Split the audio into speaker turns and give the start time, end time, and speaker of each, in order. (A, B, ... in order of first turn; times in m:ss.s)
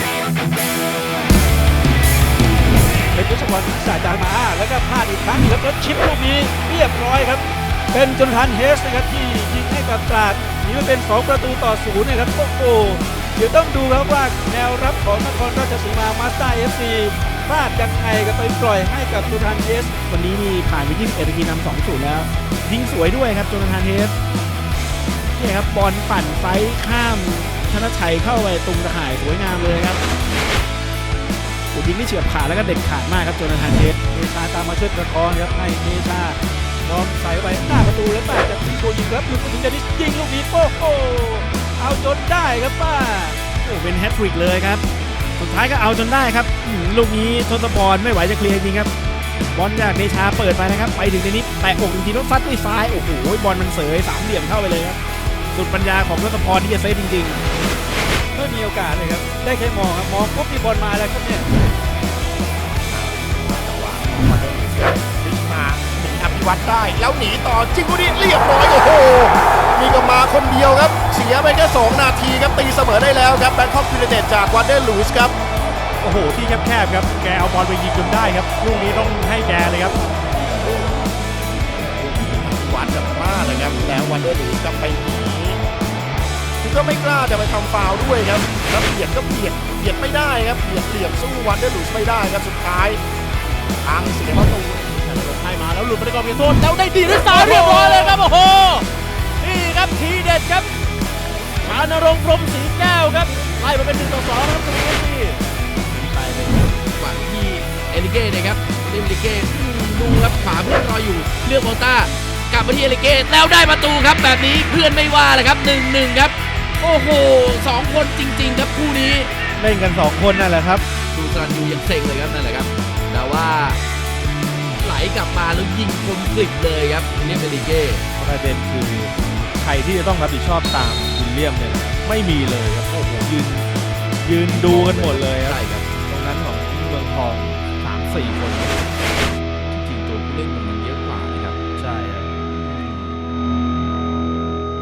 0:03.1-0:19.9 A
0:20.1-0:24.1 B
0:25.4-0:30.0 B
0:31.7-0:34.0 B
0:34.1-0:43.4 A
0:43.6-0:44.8 B
0:45.4-0:48.9 B
0:49.5-0:55.0 B
0:55.5-0:57.4 B
0:58.3-1:01.4 A
1:02.9-1:15.4 C
1:16.0-1:20.0 B
1:22.0-1:25.6 C
1:26.6-1:33.0 C
1:33.8-1:35.1 C
1:34.9-1:36.6 B
1:36.6-1:38.8 D
1:37.2-1:38.7 B
1:39.4-1:40.7 D
1:41.6-1:45.4 B
1:45.9-1:46.7 B
1:46.9-1:59.3 D
1:59.6-2:00.8 B
2:01.1-2:03.8 D
2:04.8-2:08.0 D
2:08.2-2:13.7 E
2:14.2-2:18.8 E
2:14.3-2:15.9 D
2:19.7-2:21.6 D
2:21.6-2:23.1 E